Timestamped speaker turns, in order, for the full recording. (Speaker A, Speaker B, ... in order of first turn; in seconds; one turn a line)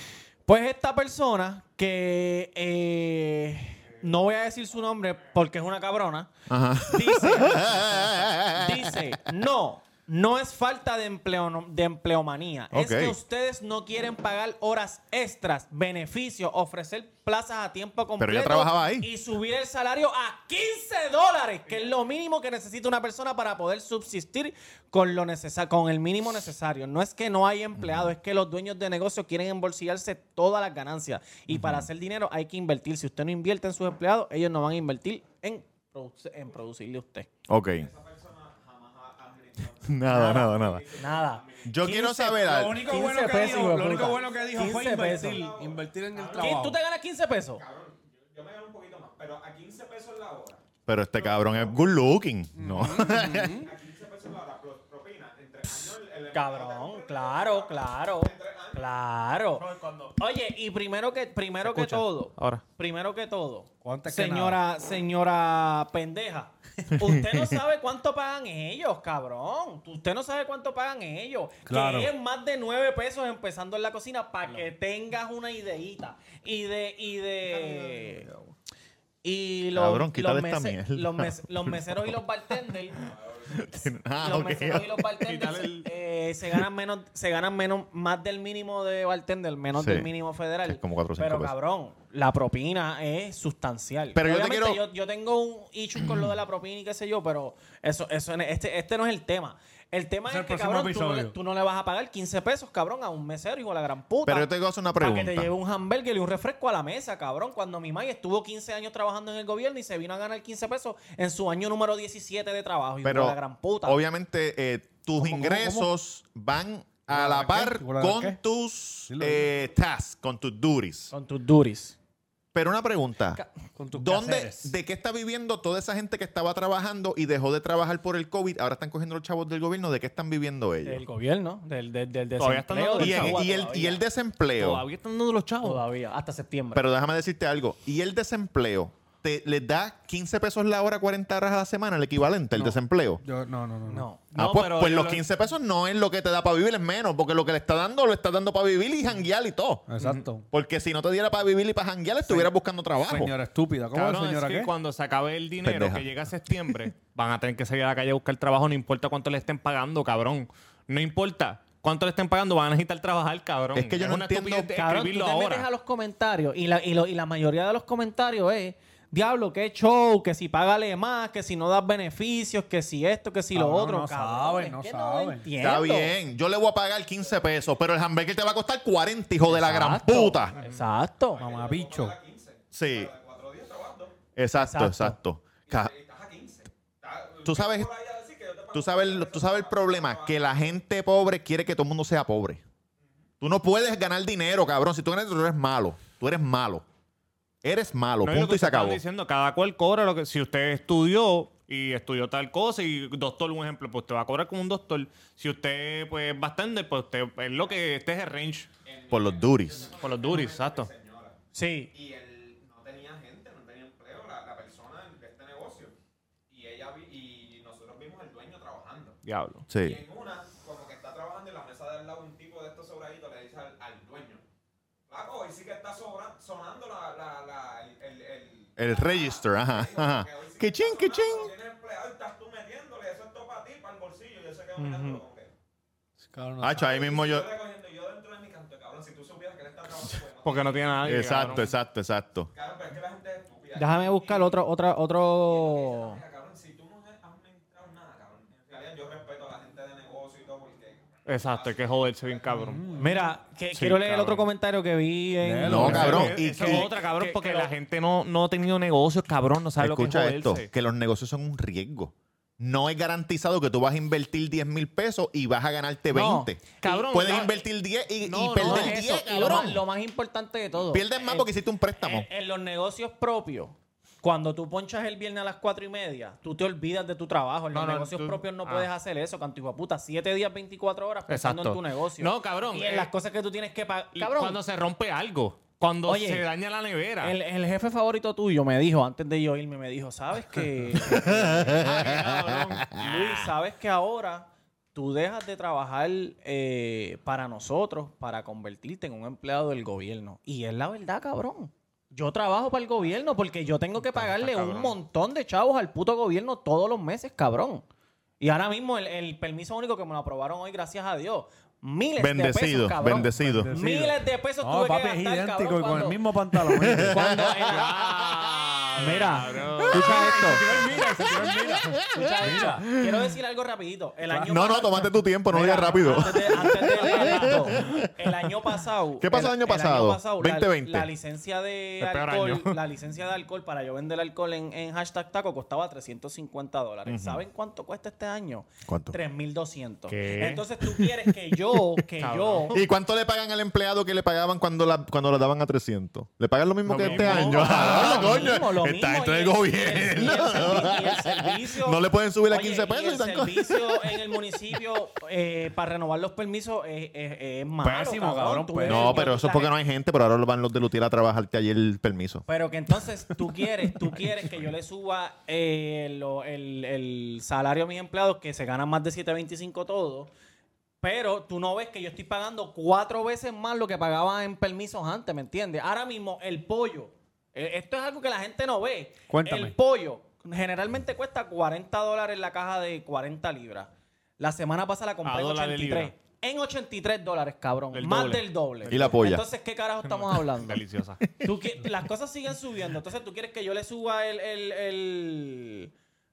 Speaker A: 0.5-6.3
Speaker B: 6.5-9.0
Speaker A: 6.8-37.3
Speaker B: 12.7-13.2
Speaker B: 18.2-19.1
Speaker B: 27.8-28.1
Speaker B: 31.5-31.9
Speaker B: 37.5-37.9
Speaker C: 37.7-41.8
Speaker B: 39.8-40.8
Speaker A: 40.1-45.5
Speaker B: 41.6-42.9
Speaker D: 42.3-46.8
Speaker C: 43.3-46.6
Speaker A: 46.3-47.6
Speaker C: 47.5-52.0
Speaker B: 50.9-53.6
Speaker D: 52.5-53.7
Speaker C: 53.0-58.9
Speaker A: 56.3-78.3
Speaker E: 59.6-60.2
Speaker E: 61.6-62.6
Speaker D: 63.8-64.6
Speaker B: 67.0-67.4
Speaker D: 71.7-72.1
Speaker D: 77.5-78.4
Speaker A: 79.2-83.0
Speaker B: 79.7-82.2
Speaker C: 83.0-83.9
Speaker B: 83.5-85.0
Speaker A: 84.2-114.0
Speaker E: 85.0-85.9
Speaker B: 89.8-90.1
Speaker B: 90.6-91.5
Speaker B: 94.1-94.8
Speaker B: 96.0-96.3
Speaker D: 100.3-101.3
Speaker B: 104.2-105.5
Speaker B: 113.0-121.1
Speaker D: 115.2-115.9
Speaker D: 117.1-118.4
Speaker D: 119.1-119.5
Speaker A: 121.1-122.0
Speaker B: 122.5-123.4
Speaker D: 123.8-124.7
Speaker B: 123.9-131.0
Speaker A: 130.8-134.0
Speaker E: 132.4-133.5
Speaker B: 133.0-134.8
Speaker E: 134.6-135.8
Speaker A: 135.6-136.8
Speaker B: 136.7-143.2
Speaker D: 142.5-144.1
Speaker A: 143.9-144.3
Speaker E: 144.3-145.3
Speaker B: 144.3-149.9
Speaker D: 149.9-150.4
Speaker E: 150.0-150.3
Speaker B: 150.5-153.3
Speaker D: 152.2-154.7
Speaker E: 153.9-165.7
Speaker B: 155.6-156.2
Speaker B: 163.7-164.7
Speaker A: 164.8-176.1
Speaker D: 173.5-175.5
Speaker B: 175.6-180.6
Speaker A: 179.5-181.4
Speaker C: 181.3-184.2
Speaker D: 181.3-182.2
Speaker B: 182.7-183.1
Speaker B: 184.3-185.9
Speaker A: 184.5-185.2
Speaker C: 185.7-190.8
Speaker B: 187.4-187.9
Speaker B: 188.7-192.6
Speaker B: 193.4-196.8
Speaker B: 197.6-199.0
Speaker E: 198.2-208.7
Speaker C: 208.8-211.4
Speaker B: 209.1-209.9
Speaker E: 209.9-210.9
Speaker A: 211.5-211.9
Speaker C: 211.9-215.9
Speaker C: 216.5-219.2
Speaker E: 219.2-219.7
Speaker B: 219.7-220.0
Speaker C: 219.7-224.4
Speaker C: 225.1-235.5
Speaker B: 228.8-231.5
Speaker A: 234.8-235.2
Speaker D: 236.2-236.8
Speaker B: 236.6-237.5
Speaker C: 236.7-241.7
Speaker E: 240.4-241.7
Speaker B: 241.0-242.5
Speaker C: 242.5-244.6
Speaker A: 243.8-246.2
Speaker C: 245.4-253.2
Speaker E: 251.2-253.0
Speaker D: 252.6-253.2
Speaker A: 253.0-257.7
Speaker E: 253.7-254.5
Speaker D: 255.4-256.4
Speaker B: 255.6-256.9
Speaker E: 255.7-260.7
Speaker B: 259.8-269.8
Speaker A: 266.1-266.9
Speaker E: 266.8-267.6
Speaker E: 268.2-269.0
Speaker A: 268.5-284.6
Speaker B: 270.9-272.3
Speaker E: 277.7-278.9
Speaker E: 281.3-283.1
Speaker E: 284.1-287.4
Speaker A: 286.1-286.4
Speaker A: 287.2-292.2
Speaker B: 291.2-293.0
Speaker E: 291.2-293.1
Speaker A: 292.9-307.8
Speaker E: 304.1-305.0
Speaker A: 308.4-316.2
Speaker B: 312.2-313.7
Speaker D: 313.1-317.2
Speaker B: 316.8-317.8
Speaker A: 317.0-318.1
Speaker E: 317.6-320.5
Speaker A: 319.0-320.7
Speaker D: 319.0-322.9
Speaker B: 321.1-323.3
Speaker A: 322.1-342.8
Speaker D: 324.3-324.6
Speaker B: 324.5-328.2
Speaker D: 325.6-327.7
Speaker B: 329.2-331.1
Speaker E: 332.0-332.8
Speaker B: 337.1-337.4
Speaker B: 338.9-339.2
Speaker E: 340.1-340.7
Speaker E: 342.2-342.8
Speaker B: 342.7-354.4
Speaker E: 346.9-348.6
Speaker A: 347.0-359.7
Speaker D: 357.8-359.3
Speaker B: 358.9-362.4
Speaker A: 362.5-370.3
Speaker A: 371.0-390.8
Speaker D: 379.3-379.7
Speaker E: 385.2-386.1
Speaker E: 387.9-388.5
Speaker B: 388.9-389.4
Speaker E: 390.0-391.4
Speaker B: 391.2-391.5
Speaker A: 391.4-395.9